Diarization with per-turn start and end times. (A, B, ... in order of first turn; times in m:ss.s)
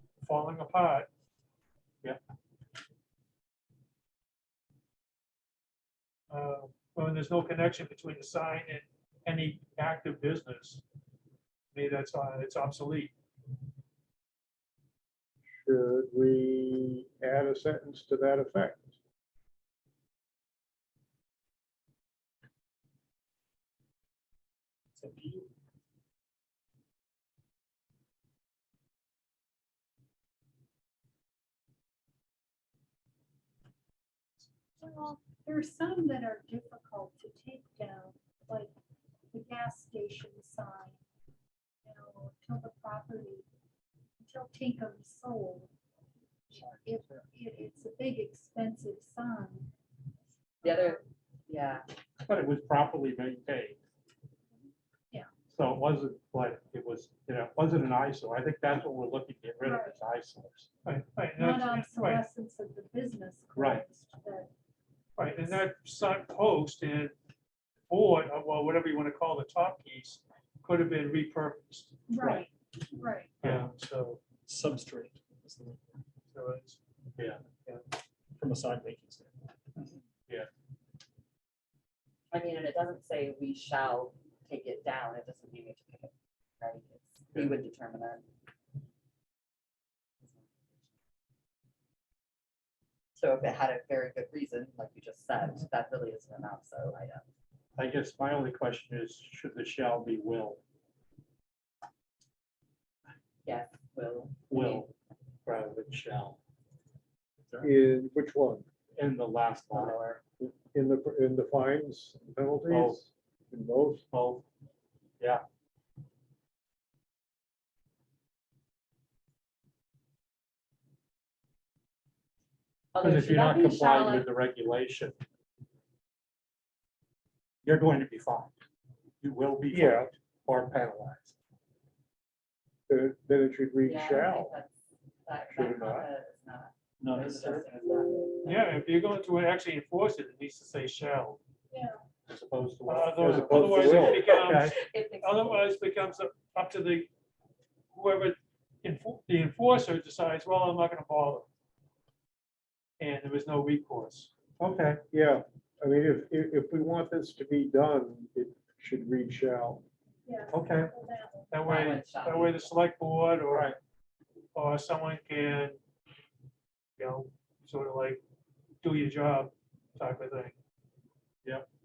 0:00.2-0:01.1 A
0:06.3-0:10.8 A
0:11.7-0:13.1 A
0:15.6-0:18.9 B
0:24.9-0:25.5 C
0:34.8-0:38.7 D
0:39.3-0:41.0 D
0:41.8-0:43.4 D
0:44.2-0:45.7 D
0:46.5-0:49.7 D
0:50.6-0:51.0 D
0:50.6-0:51.9 E
0:52.2-0:53.8 F
0:55.5-1:00.7 F
0:59.6-1:00.0 D
1:00.8-1:02.2 A
1:01.4-1:04.5 D
1:03.5-1:03.8 F
1:05.2-1:07.1 A
1:05.2-1:05.5 D
1:07.9-1:12.0 A
1:12.1-1:13.4 D
1:12.2-1:12.4 F
1:13.4-1:14.2 A
1:14.4-1:15.9 C
1:16.3-1:16.8 A
1:18.3-1:19.3 C
1:22.3-1:28.2 E
1:33.1-1:37.2 E
1:37.8-1:40.6 F
1:43.4-1:44.9 E
1:44.5-1:44.9 F
1:45.4-1:46.4 F
1:47.6-1:48.6 B
1:49.0-1:50.2 F
1:49.7-1:54.0 B
1:52.7-1:53.0 F
1:54.1-1:54.4 F
2:02.9-2:04.2 E
2:03.0-2:05.2 F
2:07.6-2:08.5 F
2:09.2-2:11.3 F
2:09.7-2:10.1 B
2:12.9-2:14.6 B
2:13.8-2:18.8 E
2:15.5-2:16.1 B
2:17.0-2:17.8 C
2:18.4-2:21.4 A
2:21.7-2:22.0 D
2:22.3-2:24.8 F
2:22.8-2:27.1 A
2:23.2-2:24.2 B
2:23.9-2:25.7 E
2:27.9-2:31.5 A
2:33.0-2:34.3 A
2:34.6-2:35.0 F
2:35.1-2:39.8 B
2:40.2-2:41.5 D
2:40.5-2:40.9 F
2:41.5-2:43.7 A
2:41.6-2:42.7 E
2:43.4-2:43.8 F
2:44.5-2:45.8 A
2:47.0-2:48.2 A
2:48.8-2:50.5 A